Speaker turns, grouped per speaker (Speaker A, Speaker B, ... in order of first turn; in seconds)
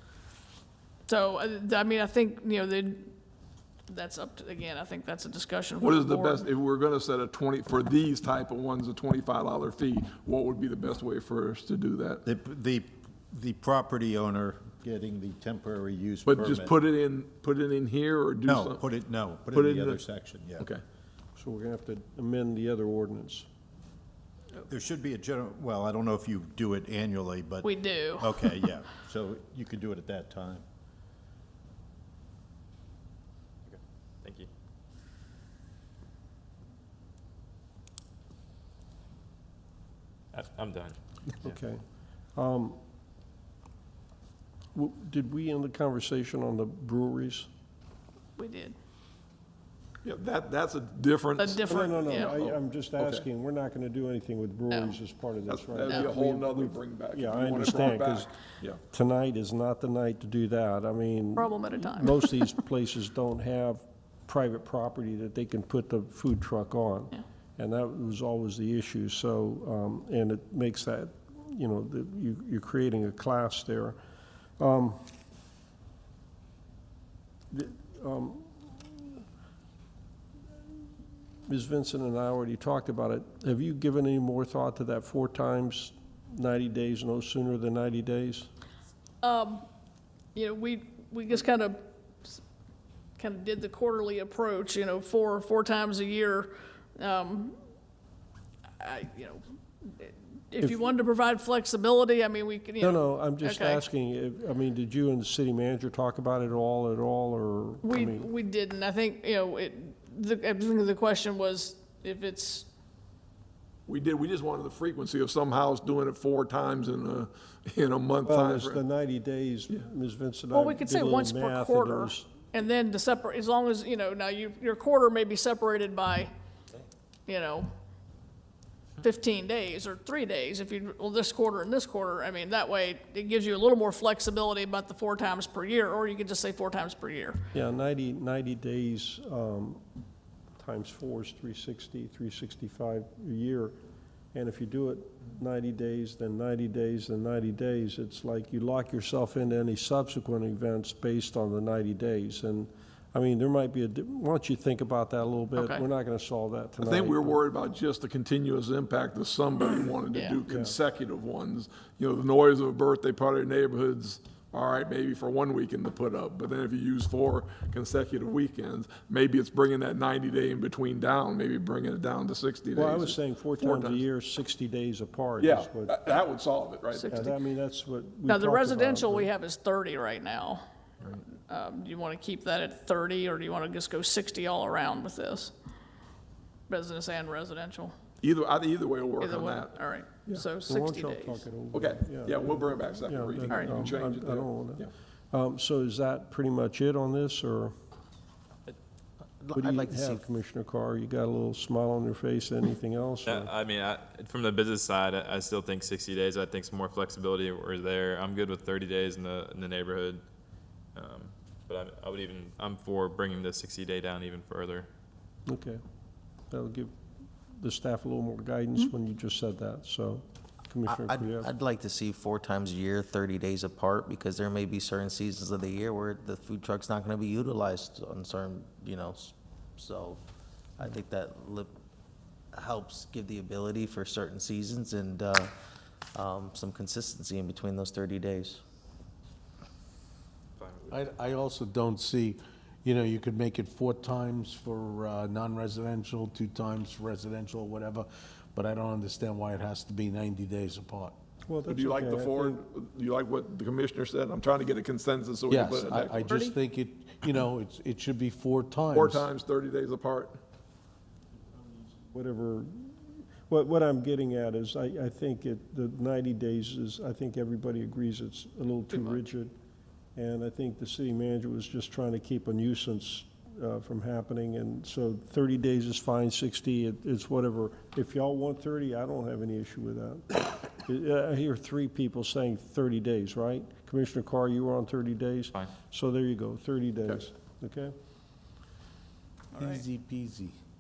Speaker A: 1.1-3.1, 3.9-6.4, 27.6-28.5, 48.4-48.7, 51.4-52.4, 54.7-54.9, 55.9-56.1, 61.4-62.5, 89.2-89.6, 90.3-92.4, 93.2-97.5, 98.8-103.8, 107.8-112.7, 120.5-126.3, 127.3-127.7, 129.0-137.4, 155.6-155.8, 160.1-160.4, 176.9-177.3, 178.2-185.5, 186.7-187.9, 189.2-191.4, 193.5-193.8, 268.9-269.3, 289.5-289.8
Speaker B: 5.8-12.2, 16.2-18.8, 19.5-20.0, 50.0-53.2, 55.5-58.8, 113.9-118.8, 156.8-174.0, 175.4-177.3, 188.2-190.4, 191.7-194.9, 251.7-256.5, 258.9-260.4
Speaker C: 12.2-16.8, 18.4-20.7, 24.7-30.6
Speaker D: 21.4-23.5, 41.4-41.8, 42.3-42.8, 44.7-47.5, 51.6-58.3, 58.8-74.0, 74.6-75.0, 77.5-79.2, 81.5-88.5, 102.8-108.3, 118.2-122.3, 137.5-139.8, 140.6-143.7, 144.3-157.4, 160.5-160.8, 172.7-176.1, 177.1-179.3, 190.7-197.7, 199.5-203.5, 215.5-215.8, 216.5-216.9, 217.6-221.5, 251.4-252.6, 261.5-269.5, 270.1-287.9
Speaker E: 33.6-34.5, 40.3-41.0, 203.2-210.2, 210.9-214.9, 240.6-240.8
Speaker F: 199.4-200.2, 220.9-230.2, 230.8-231.7, 232.5-235.5, 236.1-238.6
Speaker G: 240.9-251.2, 255.5-259.2, 289.6-290.6